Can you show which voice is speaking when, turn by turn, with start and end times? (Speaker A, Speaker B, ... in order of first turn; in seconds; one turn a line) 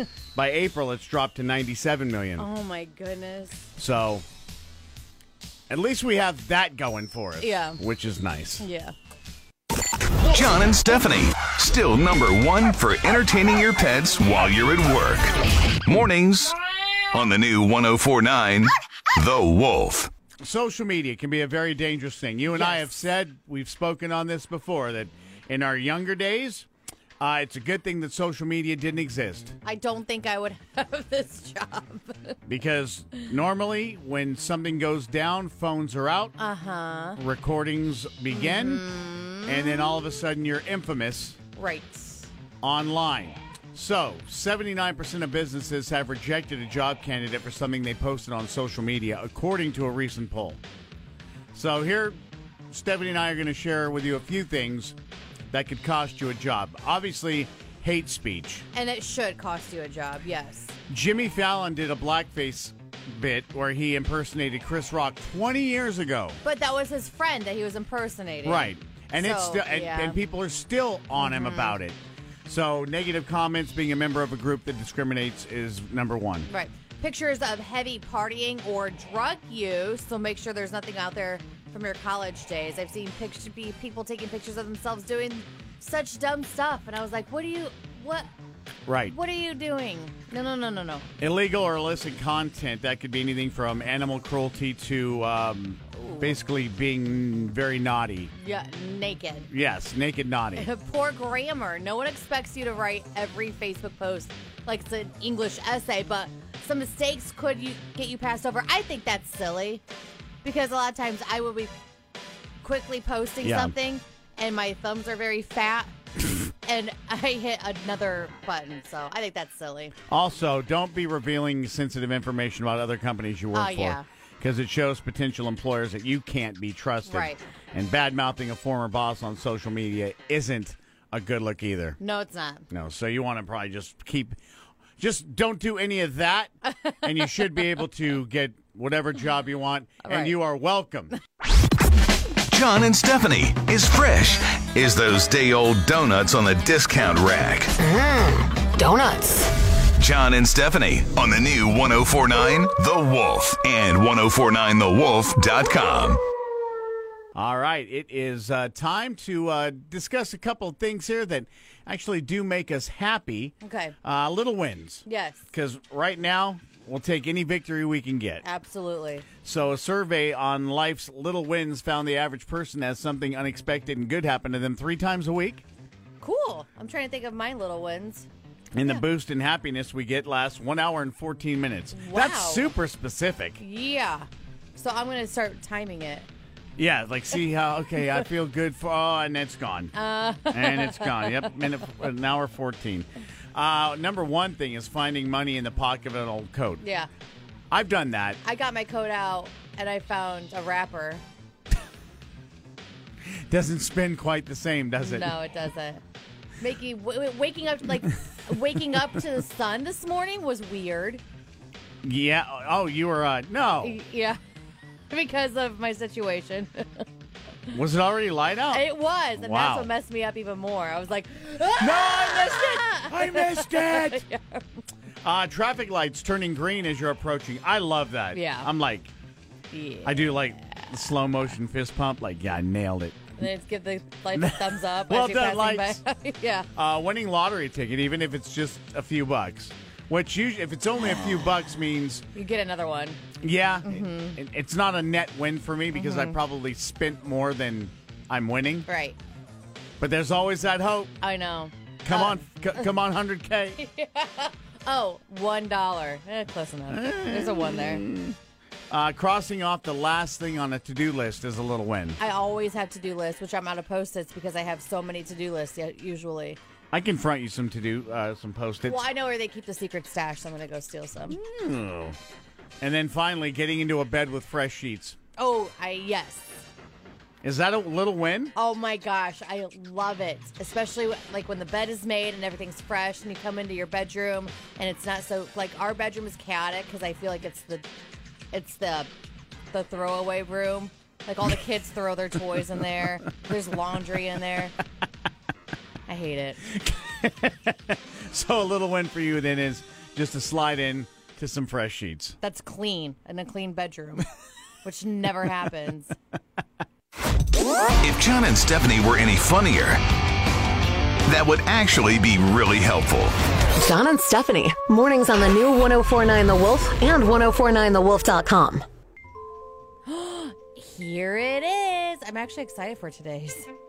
Speaker A: 0.3-2.5
Speaker B: 2.4-3.7
Speaker A: 3.8-4.2
Speaker A: 5.7-8.7
Speaker B: 7.4-7.8
Speaker B: 8.6-8.9
Speaker C: 10.3-15.3
Speaker C: 15.8-16.6
Speaker C: 17.1-20.1
Speaker A: 20.4-26.7
Speaker B: 22.5-22.9
Speaker A: 27.2-29.6
Speaker B: 29.6-32.4
Speaker A: 32.5-36.4
Speaker B: 36.4-37.2
Speaker A: 37.2-38.9
Speaker B: 38.3-40.1
Speaker A: 39.4-41.4
Speaker B: 41.5-42.3
Speaker A: 42.6-50.6
Speaker A: 51.5-52.2
Speaker A: 52.7-54.9
Speaker A: 55.5-58.6
Speaker B: 58.7-60.8
Speaker A: 60.9-66.4
Speaker B: 66.4-70.2
Speaker A: 68.4-76.5
Speaker B: 71.2-71.8
Speaker B: 76.5-88.3
Speaker A: 88.8-89.1
Speaker B: 89.1-91.1
Speaker A: 91.2-98.3
Speaker B: 96.0-96.3
Speaker B: 98.3-99.5
Speaker A: 99.5-100.7
Speaker B: 100.5-109.8
Speaker B: 110.4-111.7
Speaker B: 112.6-119.9
Speaker A: 113.4-113.7
Speaker A: 120.1-132.0
Speaker B: 123.5-124.0
Speaker B: 127.0-127.4
Speaker B: 132.0-132.7
Speaker A: 132.7-134.4
Speaker A: 135.0-141.1
Speaker B: 140.0-140.4
Speaker C: 142.5-147.7
Speaker D: 147.8-149.5
Speaker C: 150.0-156.2
Speaker A: 157.3-168.4
Speaker B: 163.6-163.9
Speaker B: 165.1-165.5
Speaker B: 168.4-169.2
Speaker A: 169.4-175.6
Speaker B: 176.2-178.3
Speaker A: 178.7-183.6
Speaker B: 181.9-182.7
Speaker B: 183.6-186.3
Speaker A: 186.8-189.9
Speaker B: 189.9-191.6
Speaker A: 190.4-196.8
Speaker B: 196.8-197.1
Speaker A: 197.7-198.4
Speaker B: 198.4-201.2
Speaker A: 203.5-205.4
Speaker B: 205.0-206.0
Speaker B: 206.6-211.2
Speaker A: 212.0-214.0
Speaker B: 213.8-214.4
Speaker B: 215.1-217.0
Speaker A: 217.7-219.9
Speaker B: 218.7-224.7
Speaker A: 221.8-224.2
Speaker A: 225.2-229.1
Speaker B: 228.3-228.7
Speaker B: 229.7-230.7
Speaker A: 230.0-233.4
Speaker B: 233.4-236.7
Speaker A: 234.3-236.0
Speaker A: 236.7-242.2
Speaker B: 242.3-243.2
Speaker A: 243.4-248.9
Speaker B: 243.8-244.4
Speaker B: 245.9-246.4
Speaker B: 248.9-249.2
Speaker A: 250.0-251.1
Speaker B: 251.2-252.4
Speaker A: 252.0-253.8
Speaker B: 253.8-258.0
Speaker A: 256.9-258.4
Speaker A: 258.9-262.2
Speaker B: 262.2-266.6
Speaker A: 266.9-269.0
Speaker B: 268.8-271.4
Speaker A: 271.3-272.2
Speaker A: 272.8-275.2
Speaker B: 275.4-276.6
Speaker A: 277.4-278.5
Speaker B: 278.5-287.9
Speaker B: 288.5-289.1
Speaker B: 289.7-294.8
Speaker B: 296.1-296.6
Speaker A: 296.7-302.4
Speaker B: 302.4-304.3
Speaker B: 304.8-306.1
Speaker C: 308.0-310.0
Speaker C: 311.2-313.3
Speaker D: 313.7-318.8
Speaker B: 320.0-323.7